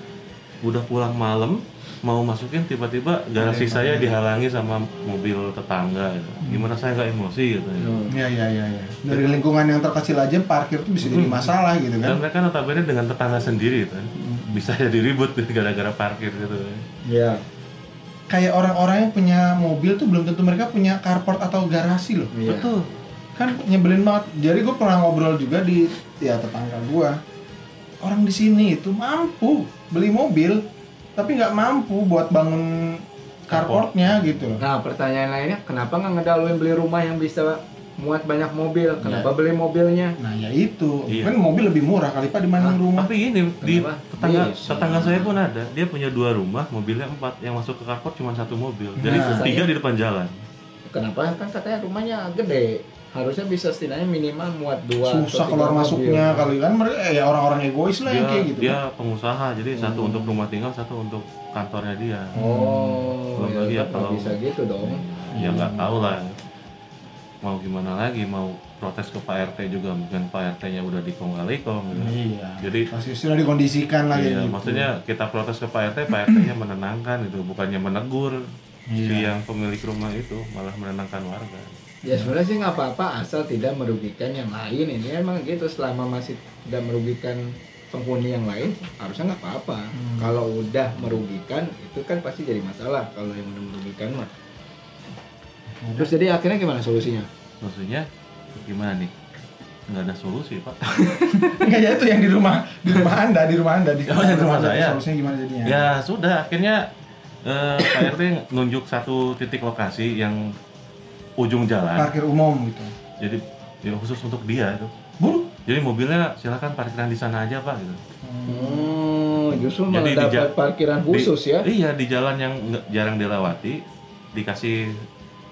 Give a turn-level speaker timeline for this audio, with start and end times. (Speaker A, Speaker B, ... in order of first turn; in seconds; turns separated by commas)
Speaker A: 0.6-8.0, Speaker B: 3.4-4.1, Speaker B: 6.4-6.7, Speaker C: 7.8-8.2, Speaker B: 8.1-12.2, Speaker A: 9.1-9.4, Speaker A: 11.0-16.8, Speaker B: 14.2-14.6, Speaker C: 17.1-17.4, Speaker B: 18.3-22.3, Speaker C: 22.3-22.7, Speaker A: 22.4-22.8, Speaker B: 23.4-27.2, Speaker B: 28.0-30.6, Speaker B: 31.1-34.6, Speaker A: 33.5-34.5, Speaker C: 34.6-40.2, Speaker B: 40.2-43.1, Speaker A: 41.1-41.3, Speaker A: 42.9-50.3, Speaker C: 43.6-45.3, Speaker B: 49.0-49.5, Speaker C: 49.0-49.7, Speaker C: 50.9-56.5, Speaker B: 55.0-58.8, Speaker A: 58.0-62.3, Speaker C: 59.8-60.3, Speaker B: 62.3-63.1, Speaker C: 62.3-65.0, Speaker A: 63.4-66.3, Speaker B: 65.3-65.9, Speaker A: 67.4-72.9, Speaker B: 71.9-74.9, Speaker A: 74.1-78.4, Speaker B: 78.9-79.3, Speaker A: 79.0-81.7, Speaker C: 82.0-94.3, Speaker B: 89.9-90.3, Speaker B: 95.8-96.1, Speaker C: 96.0-97.3, Speaker A: 97.6-99.1, Speaker A: 99.9-100.8, Speaker C: 100.9-101.5, Speaker B: 101.3-105.9, Speaker A: 104.1-105.0, Speaker A: 105.6-106.9, Speaker A: 107.4-110.5, Speaker A: 111.4-112.1, Speaker B: 111.9-112.9, Speaker A: 113.2-114.9, Speaker B: 115.2-115.5, Speaker A: 115.6-118.0, Speaker B: 118.2-119.0, Speaker C: 118.5-121.7, Speaker A: 119.9-120.5, Speaker A: 121.0-123.8, Speaker A: 124.3-124.8